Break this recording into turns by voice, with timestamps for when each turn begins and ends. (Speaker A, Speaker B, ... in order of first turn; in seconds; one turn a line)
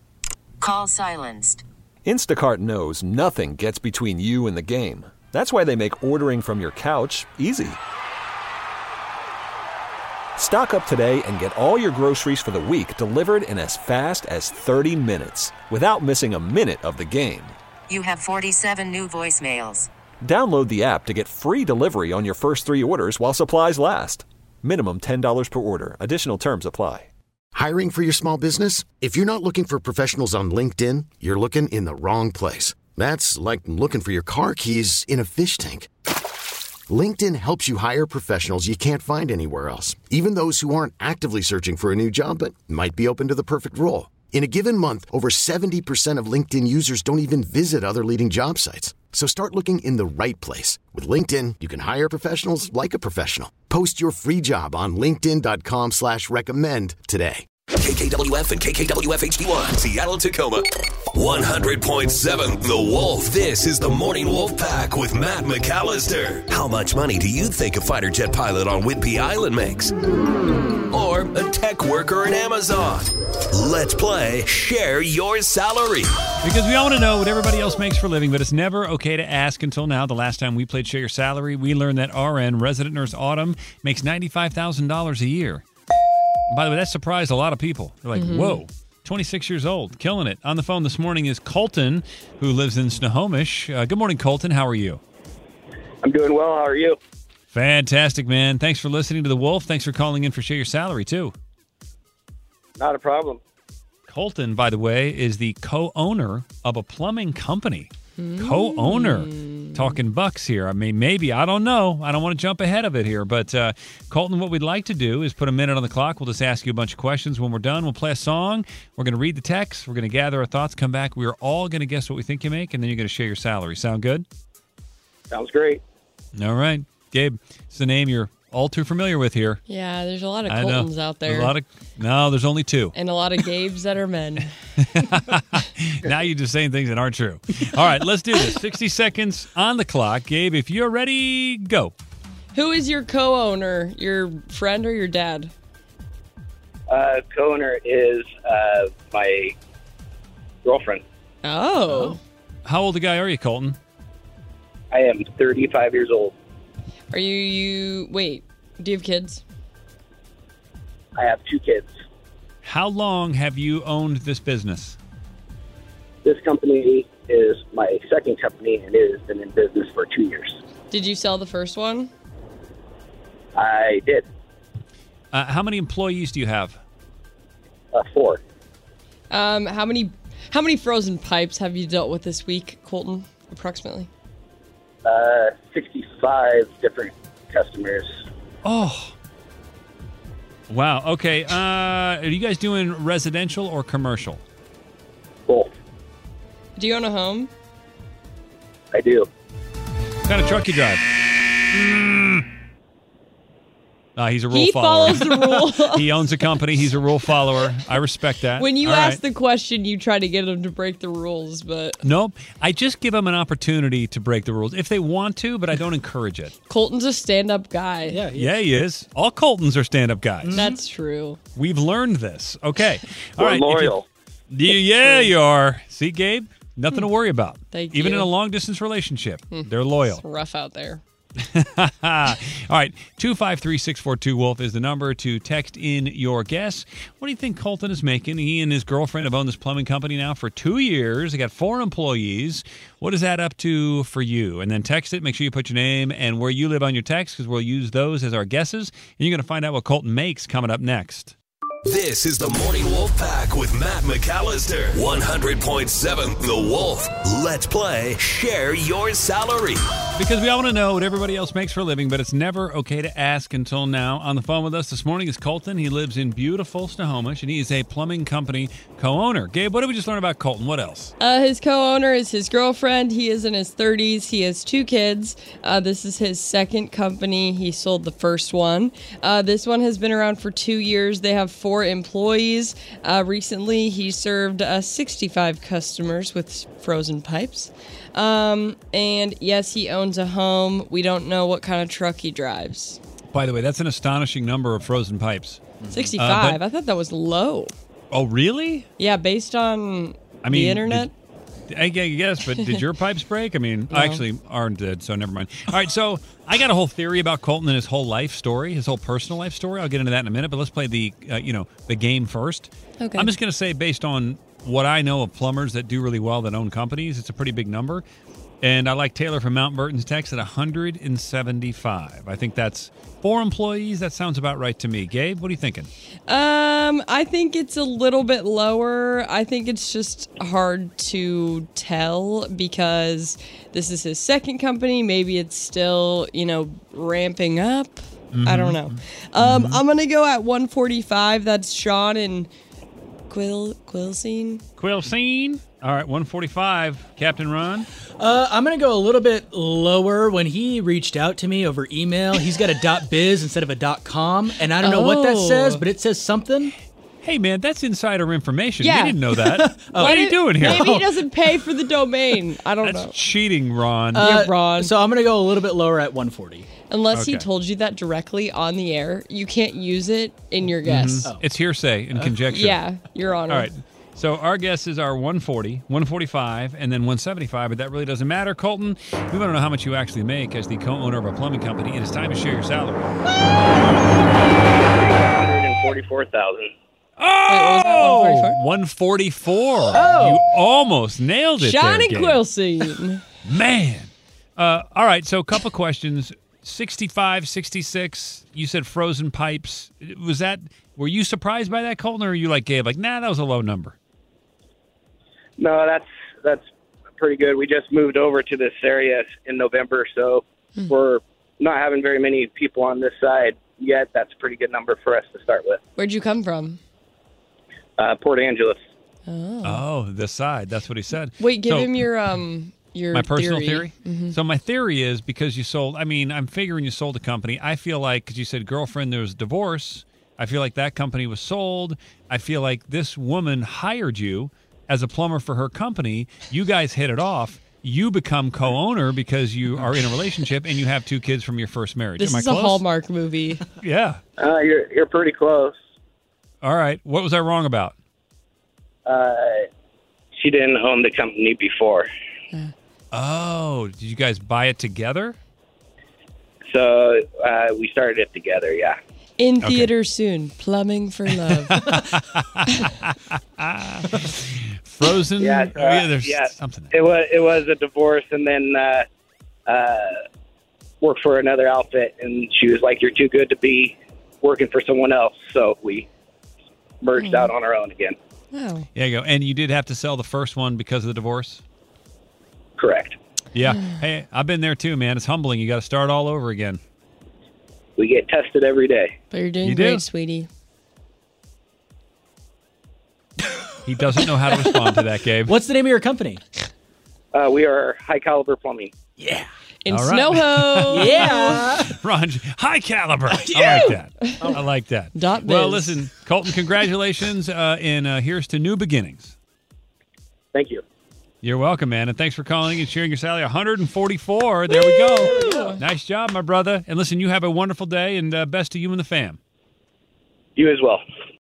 Speaker A: 0.6-1.6
Speaker B: 2.0-7.8
Speaker B: 10.4-17.6
Speaker A: 17.9-19.9
Speaker B: 20.2-27.1
Speaker C: 27.5-35.9
Speaker C: 36.9-57.4
Speaker D: 57.8-69.9
Speaker D: 70.9-76.1
Speaker E: 76.4-85.6
Speaker E: 86.5-95.0
Speaker F: 88.1-88.6
Speaker G: 96.0-97.0
Speaker E: 97.5-101.3
Speaker G: 102.8-103.4
Speaker E: 104.1-124.2
Speaker F: 108.2-109.6
Speaker G: 125.3-125.8
Speaker E: 126.3-129.6
Speaker F: 129.7-131.5
Speaker E: 130.5-132.9
Speaker F: 132.9-134.5
Speaker E: 135.0-141.9
Speaker F: 142.5-145.5
Speaker G: 146.9-149.5
Speaker G: 150.6-151.0
Speaker F: 151.4-152.2
Speaker E: 152.6-153.8
Speaker G: 154.9-156.3
Speaker F: 157.1-159.4
Speaker G: 161.2-161.9
Speaker E: 162.6-165.0
Speaker G: 166.2-170.6
Speaker F: 170.9-172.1
Speaker G: 173.5-174.3
Speaker E: 175.3-176.8
Speaker G: 177.9-178.4
Speaker F: 179.3-184.1
Speaker G: 185.0-188.2
Speaker E: 188.6-189.1
Speaker E: 190.7-194.4
Speaker F: 196.8-197.5
Speaker G: 198.9-199.3
Speaker E: 200.2-201.0
Speaker E: 201.7-202.5
Speaker E: 204.2-209.2
Speaker F: 204.5-206.1
Speaker F: 208.6-212.0
Speaker E: 212.0-216.5
Speaker F: 216.7-218.2
Speaker H: 218.1-218.6
Speaker E: 218.3-220.6
Speaker H: 220.4-220.7
Speaker F: 220.5-221.4
Speaker E: 221.5-230.2
Speaker G: 223.4-224.0
Speaker F: 227.7-228.3
Speaker F: 229.5-231.0
Speaker E: 231.4-251.3
Speaker D: 251.8-259.8
Speaker E: 260.2-271.1
Speaker F: 271.2-293.0
Speaker E: 293.3-295.6
Speaker H: 295.8-296.1
Speaker F: 295.9-297.7
Speaker E: 296.2-296.6
Speaker E: 298.1-298.9
Speaker F: 299.0-301.1
Speaker E: 300.4-301.1
Speaker E: 301.7-318.0
Speaker F: 303.9-304.2
Speaker F: 313.0-313.3
Speaker E: 318.6-325.9
Speaker F: 326.3-342.5
Speaker E: 338.3-339.8
Speaker F: 343.3-344.6
Speaker E: 344.8-347.9
Speaker H: 348.2-356.7
Speaker F: 354.8-355.8
Speaker E: 357.2-360.9
Speaker F: 358.8-359.2
Speaker H: 359.3-361.2
Speaker F: 359.9-363.1
Speaker E: 362.8-364.3
Speaker H: 364.1-366.7
Speaker F: 364.1-364.9
Speaker F: 366.9-371.3
Speaker E: 367.1-367.5
Speaker E: 370.8-372.8
Speaker H: 371.2-371.5
Speaker F: 372.5-373.7
Speaker E: 373.5-383.2
Speaker G: 384.6-386.7
Speaker E: 387.2-392.4
Speaker F: 387.5-388.6
Speaker H: 389.9-390.4
Speaker F: 391.6-393.2
Speaker E: 393.4-403.9
Speaker G: 405.6-406.6
Speaker G: 407.2-415.8
Speaker F: 415.9-416.8
Speaker G: 418.0-418.8
Speaker F: 419.3-419.8
Speaker E: 419.6-422.0
Speaker F: 421.4-424.3
Speaker E: 423.1-442.8
Speaker F: 442.2-443.6
Speaker E: 443.8-444.2
Speaker G: 444.4-445.7
Speaker E: 446.6-447.9
Speaker G: 449.1-449.6
Speaker G: 450.4-452.1
Speaker E: 453.1-455.4
Speaker G: 456.7-459.0
Speaker F: 459.4-461.8
Speaker E: 459.6-459.9
Speaker E: 461.7-466.9
Speaker G: 465.4-469.1
Speaker G: 469.7-470.2
Speaker G: 471.0-476.1
Speaker G: 477.0-478.1
Speaker F: 477.2-477.5
Speaker F: 478.5-478.9
Speaker E: 478.9-481.6
Speaker G: 482.8-483.1
Speaker E: 483.5-486.8
Speaker G: 488.0-489.1
Speaker F: 489.3-490.5
Speaker E: 489.6-490.0
Speaker E: 493.9-495.5
Speaker H: 494.2-494.9
Speaker H: 495.4-496.4
Speaker G: 497.3-498.9
Speaker H: 499.2-499.5
Speaker F: 499.8-501.7
Speaker E: 499.9-509.3
Speaker H: 500.9-502.0
Speaker H: 503.3-504.6
Speaker F: 503.7-504.5
Speaker F: 505.1-506.0
Speaker G: 510.5-510.8
Speaker E: 511.4-519.4
Speaker F: 514.8-515.8
Speaker G: 515.5-515.7
Speaker G: 520.6-521.0